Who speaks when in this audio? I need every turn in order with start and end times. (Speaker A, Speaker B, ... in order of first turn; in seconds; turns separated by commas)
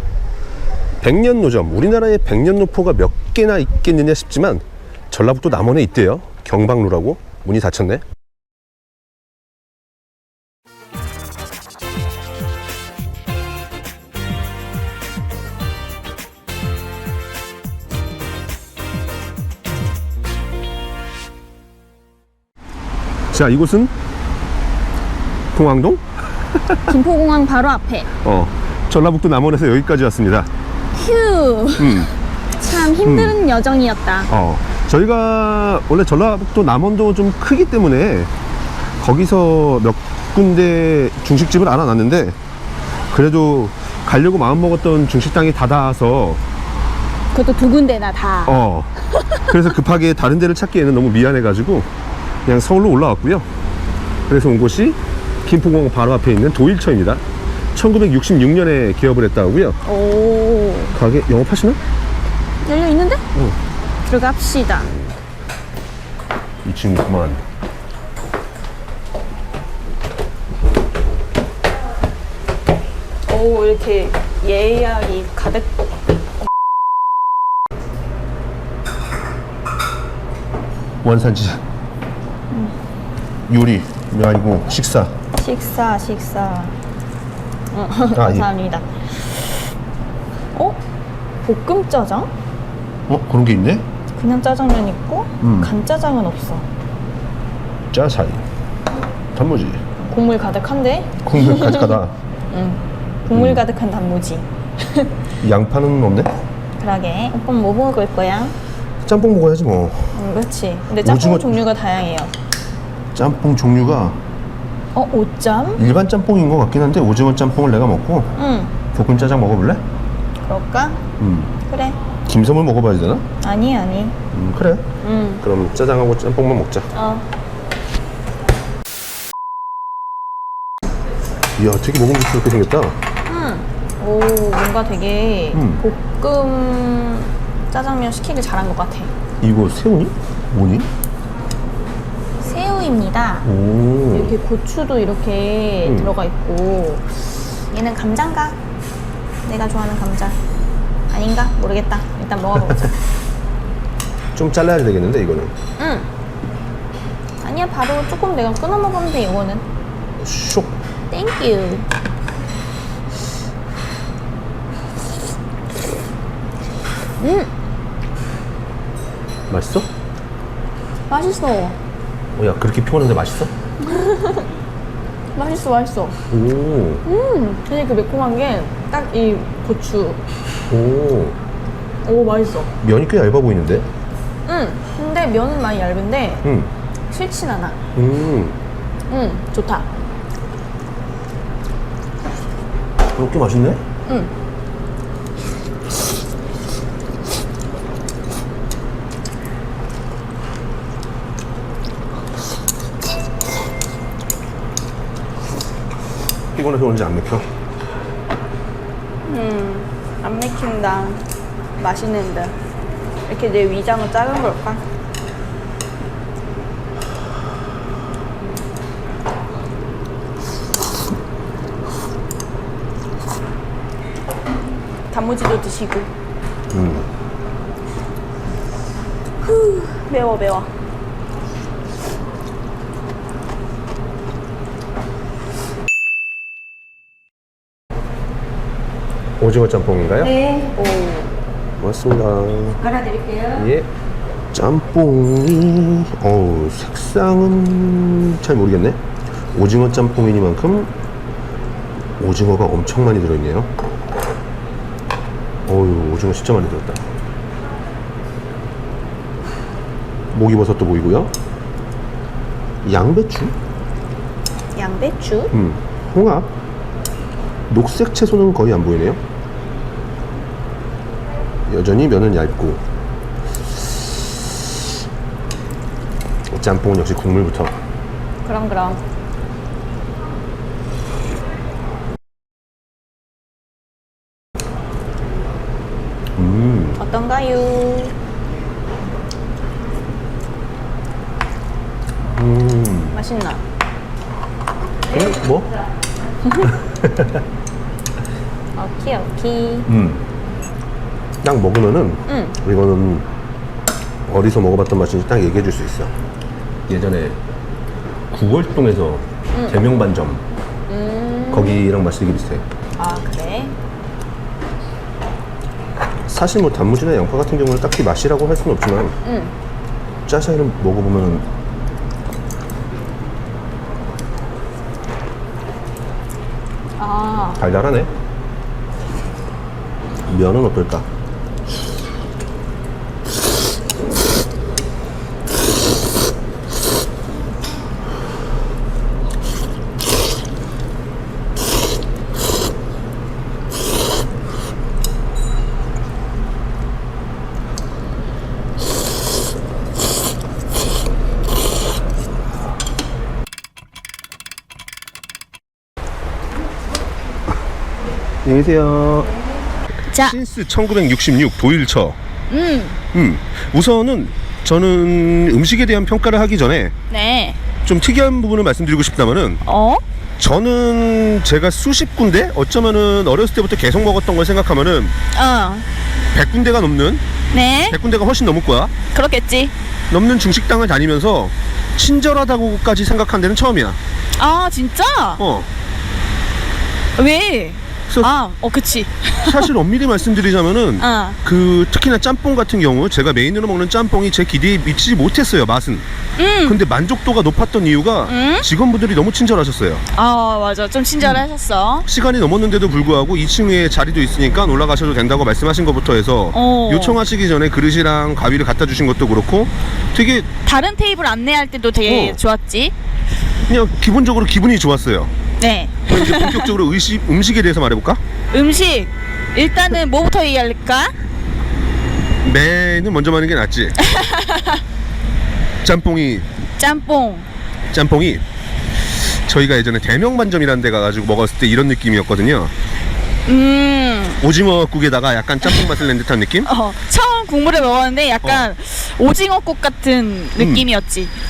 Speaker A: 1.0-8.0, Speaker A: 23.3-23.9, Speaker A: 25.5-26.8, Speaker B: 26.9-28.1, Speaker A: 28.2-30.5, Speaker B: 30.9-34.3, Speaker A: 31.8-32.1, Speaker A: 33.0-33.4, Speaker A: 34.3-38.3, Speaker A: 39.0-42.4, Speaker A: 43.1-46.4, Speaker B: 47.3-48.5, Speaker A: 48.4-51.9, Speaker A: 52.4-53.5, Speaker A: 54.3-57.2, Speaker A: 57.7-59.8, Speaker B: 59.9-60.9, Speaker A: 60.9-61.8, Speaker B: 62.6-63.2, Speaker B: 64.0-64.9, Speaker A: 66.6-67.4, Speaker B: 73.3-75.7, Speaker A: 81.0-81.6, Speaker A: 83.5-85.1, Speaker B: 85.3-86.8, Speaker B: 87.7-88.9, Speaker A: 88.1-88.5, Speaker B: 90.5-90.8, Speaker B: 91.4-92.3, Speaker A: 93.1-93.8, Speaker B: 94.1-96.7, Speaker A: 95.4-95.7, Speaker A: 97.9-98.4, Speaker A: 99.3-99.8, Speaker B: 100.0-102.0, Speaker A: 101.2-102.1, Speaker B: 102.5-105.1, Speaker A: 103.3-103.6, Speaker A: 105.4-106.3, Speaker B: 106.8-108.5, Speaker A: 109.0-110.2, Speaker B: 110.1-112.3, Speaker A: 111.0-111.6, Speaker A: 113.1-114.2, Speaker B: 114.9-115.8, Speaker A: 115.8-118.3, Speaker B: 118.4-118.7, Speaker A: 118.9-119.8, Speaker B: 120.5-121.0, Speaker A: 121.2-121.5, Speaker B: 121.7-122.0, Speaker A: 122.2-123.2, Speaker B: 123.4-124.2, Speaker A: 124.3-124.8, Speaker B: 125.0-125.4, Speaker A: 125.4-126.9, Speaker B: 126.9-127.2, Speaker A: 131.6-132.9, Speaker B: 133.3-139.1, Speaker A: 135.5-135.8, Speaker A: 139.4-140.9, Speaker B: 142.4-143.5, Speaker A: 143.4-144.4, Speaker B: 144.1-147.1, Speaker A: 145.8-146.1, Speaker B: 147.7-148.6, Speaker B: 149.4-150.4, Speaker B: 151.1-152.9, Speaker A: 154.3-155.5, Speaker B: 155.8-156.1, Speaker B: 157.4-159.6, Speaker A: 160.2-160.7, Speaker B: 161.1-161.9, Speaker B: 167.2-167.5, Speaker A: 169.5-169.9, Speaker B: 171.1-171.8, Speaker A: 172.3-173.5, Speaker B: 173.8-174.4, Speaker B: 175.3-176.2, Speaker A: 176.3-177.0, Speaker B: 177.1-180.2, Speaker A: 180.7-181.4, Speaker B: 182.0-182.7, Speaker A: 182.8-183.9, Speaker B: 184.4-186.4, Speaker A: 186.4-186.7, Speaker B: 187.1-187.8, Speaker A: 187.9-188.6, Speaker B: 189.1-189.9, Speaker A: 193.1-193.8, Speaker A: 206.5-207.4, Speaker B: 209.3-211.2, Speaker B: 211.8-212.5, Speaker B: 213.3-214.8, Speaker C: 225.1-226.0, Speaker B: 225.3-226.0, Speaker A: 226.7-227.1, Speaker B: 229.6-230.7, Speaker A: 239.4-240.4, Speaker B: 240.5-241.3, Speaker A: 241.8-242.9, Speaker A: 243.5-243.9, Speaker A: 244.5-249.0, Speaker A: 249.5-250.9, Speaker A: 252.2-253.7, Speaker A: 255.7-257.0, Speaker A: 260.3-261.3, Speaker A: 262.8-263.5, Speaker B: 264.8-265.5, Speaker A: 265.5-266.5, Speaker A: 267.7-269.2, Speaker A: 271.7-272.8, Speaker A: 276.5-277.7, Speaker B: 278.4-279.0, Speaker A: 286.4-287.0, Speaker B: 287.0-288.1, Speaker A: 292.3-293.2, Speaker B: 293.2-293.6, Speaker A: 295.1-295.7, Speaker A: 296.6-297.3, Speaker B: 298.8-299.9, Speaker A: 299.9-300.2, Speaker A: 301.4-303.2, Speaker A: 304.3-306.1, Speaker A: 306.9-307.4, Speaker A: 308.3-310.4, Speaker B: 310.9-311.8, Speaker A: 311.5-312.6, Speaker B: 313.0-313.7, Speaker A: 316.2-319.1, Speaker B: 319.2-319.5, Speaker A: 320.2-321.4, Speaker B: 327.0-327.6, Speaker A: 327.6-328.1, Speaker A: 330.3-331.1, Speaker A: 358.4-359.3, Speaker C: 360.1-360.4, Speaker A: 360.2-362.2, Speaker C: 362.5-363.0, Speaker A: 363.1-366.9, Speaker C: 367.1-367.6, Speaker A: 367.8-369.6, Speaker C: 369.6-370.0, Speaker A: 370.4-375.1, Speaker C: 375.3-375.8, Speaker A: 376.3-377.2, Speaker C: 377.5-378.0, Speaker A: 377.9-378.9, Speaker C: 379.1-379.7, Speaker A: 380.1-384.0, Speaker C: 384.4-385.4, Speaker A: 385.4-385.7, Speaker C: 387.2-389.7, Speaker A: 389.4-396.1, Speaker C: 391.0-391.4, Speaker C: 396.4-396.8, Speaker A: 396.6-400.0, Speaker C: 398.3-398.6, Speaker C: 400.1-402.1, Speaker A: 402.0-410.5, Speaker C: 406.5-407.2, Speaker C: 410.6-412.9, Speaker A: 412.0-412.4, Speaker A: 413.6-415.3, Speaker C: 415.6-416.7, Speaker A: 416.1-418.2, Speaker C: 418.5-421.1, Speaker A: 422.4-423.9, Speaker C: 424.0-424.8, Speaker A: 425.8-426.5, Speaker C: 426.8-427.4, Speaker A: 427.9-428.4, Speaker A: 429.1-432.7, Speaker C: 433.4-434.4, Speaker A: 434.4-436.7, Speaker C: 435.6-435.9, Speaker C: 436.6-441.3, Speaker A: 438.4-438.7, Speaker A: 440.6-440.9